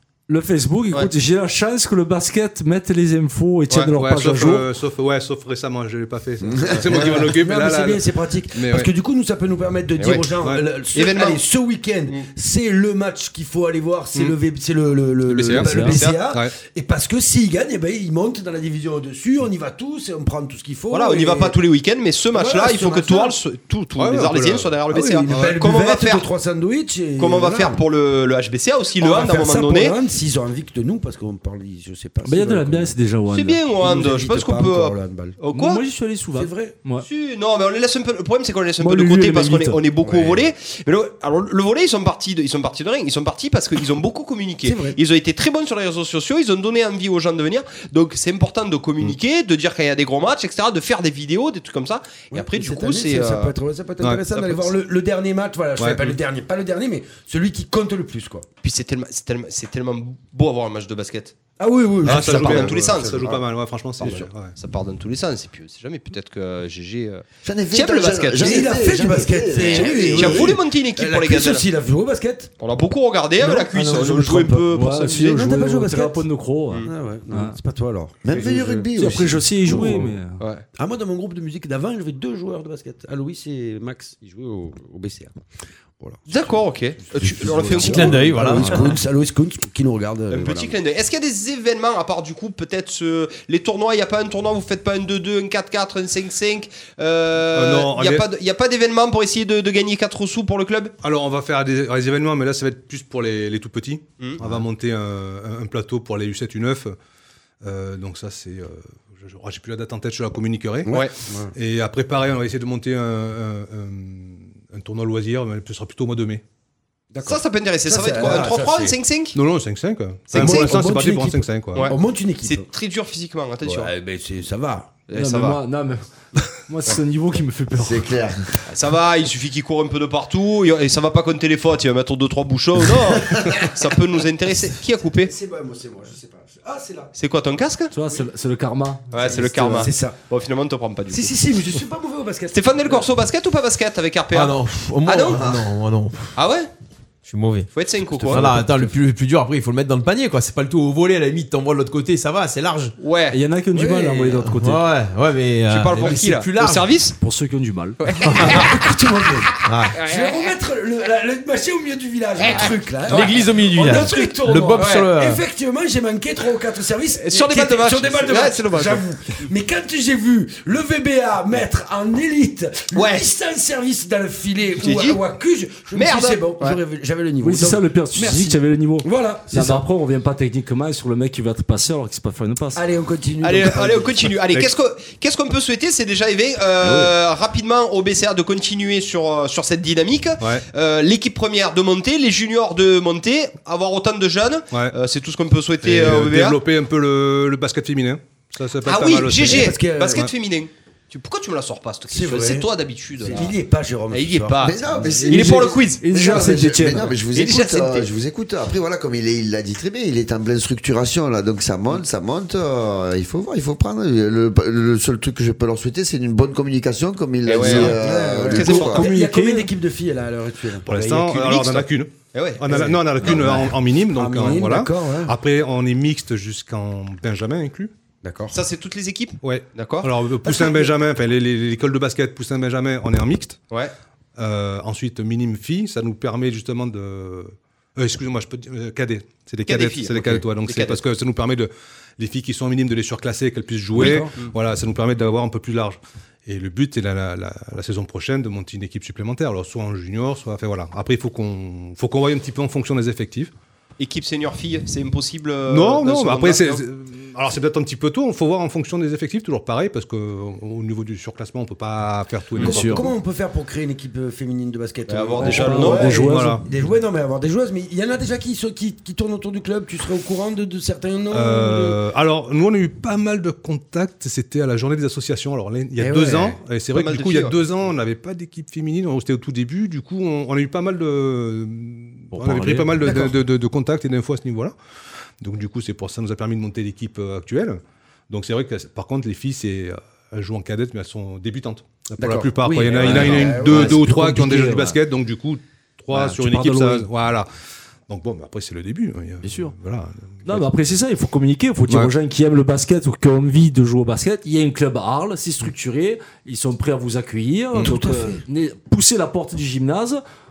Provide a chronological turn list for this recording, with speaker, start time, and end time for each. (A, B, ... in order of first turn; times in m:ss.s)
0:00.3-0:04.6 A
0:03.8-0:08.9 B
0:06.5-0:21.6 C
0:06.7-0:07.2 D
0:10.0-0:10.3 D
0:10.9-0:11.4 D
0:15.3-0:16.5 B
0:15.6-0:16.0 A
0:15.8-0:16.2 D
0:20.9-0:26.3 D
0:22.3-0:23.4 C
0:24.0-0:24.8 B
0:24.9-0:27.8 C
0:25.3-0:25.6 B
0:27.2-0:30.0 D
0:29.0-0:32.9 C
0:32.2-0:33.6 A
0:33.3-0:35.8 D
0:33.8-0:35.4 C
0:35.5-0:37.1 A
0:36.3-0:36.8 C
0:37.0-0:53.5 D
0:38.8-0:39.8 A
0:40.0-0:40.4 C
0:44.6-0:45.0 C
0:52.3-0:58.4 C
0:54.3-0:54.7 D
0:55.8-0:56.2 B
0:58.6-1:01.3 D
1:01.6-1:03.3 C
1:02.0-1:04.6 B
1:02.0-1:03.4 D
1:04.0-1:08.8 D
1:04.0-1:04.3 C
1:07.4-1:10.6 E
1:08.4-1:12.5 C
1:09.6-1:11.7 D
1:12.6-1:15.4 D
1:13.4-1:16.3 C
1:14.7-1:17.6 A
1:16.8-1:18.9 C
1:18.2-1:19.8 E
1:19.0-1:20.4 A
1:19.6-1:20.2 C
1:20.4-1:20.6 D
1:20.8-1:25.3 C
1:26.0-1:30.7 C
1:26.3-1:28.3 D
1:27.7-1:29.0 F
1:30.3-1:40.9 D
1:37.5-1:38.3 B
1:41.0-1:47.0 B
1:47.6-1:51.0 B
1:50.9-1:51.5 C
1:51.5-1:56.4 B
1:57.1-1:59.0 C
1:57.2-1:59.4 D
1:59.3-2:01.9 B
2:00.3-2:00.8 D
2:00.3-2:02.6 C
2:01.7-2:03.9 D
2:03.6-2:04.9 C
2:05.1-2:05.6 D
2:05.1-2:08.2 A
2:07.7-2:08.5 E
2:08.7-2:15.3 D
2:15.2-2:17.1 C
2:17.2-2:17.9 D
2:17.9-2:19.9 A
2:19.1-2:21.4 D
2:19.4-2:20.2 C
2:21.1-2:23.1 C
2:22.5-2:25.4 D
2:24.3-2:26.4 F
2:26.4-2:26.7 D
2:27.2-2:27.7 F
2:27.7-2:28.5 D
2:28.2-2:28.9 A
2:28.3-2:32.9 F
2:33.0-2:33.4 D
2:33.3-2:34.9 A
2:33.7-2:34.4 C
2:34.4-2:36.9 F
2:35.7-2:37.2 D
2:37.2-2:38.0 A
2:38.0-2:38.8 D
2:38.2-2:59.8 C
2:39.6-2:40.0 F
2:39.9-2:40.5 D
2:42.4-2:44.2 D
2:43.1-2:45.4 F
2:44.7-2:45.1 D
2:47.2-2:49.1 D
2:52.9-2:53.3 D
2:54.8-2:55.2 D
2:55.9-2:56.8 D
2:57.4-3:02.8 A
3:02.8-3:04.4 C
3:03.4-3:16.6 D
3:06.8-3:07.1 C
3:15.8-3:19.7 B
3:18.8-3:23.6 D
3:19.4-3:20.3 C
3:22.1-3:25.7 C
3:24.1-3:26.0 D
3:24.6-3:39.1 E
3:25.2-3:27.2 A
3:27.3-3:28.1 D
3:37.4-3:39.1 D
3:37.6-3:41.4 C
3:38.5-3:39.7 A
3:40.8-3:47.9 B
3:41.3-3:43.5 D
3:42.7-3:45.4 C
3:48.2-3:48.6 C
3:48.5-3:50.9 D
3:49.4-3:53.6 B
3:54.4-4:13.5 B
3:59.6-4:01.0 D
4:03.9-4:04.4 C
4:14.0-4:16.8 D
4:15.7-4:23.1 B
4:22.6-4:23.1 A
4:22.6-4:32.0 C
4:25.1-4:26.2 D
4:25.4-4:26.6 A
4:26.0-4:26.6 B
4:31.3-4:44.7 B
4:36.0-4:36.6 C
4:36.9-4:37.6 D
4:42.3-4:43.0 A
4:43.0-4:43.4 C
4:45.4-4:57.5 B
4:52.2-4:54.1 C
4:52.8-4:55.0 A
4:56.1-4:57.1 A
4:58.1-5:00.7 B
4:59.4-4:59.7 A
5:00.4-5:10.2 A
5:07.8-5:08.4 C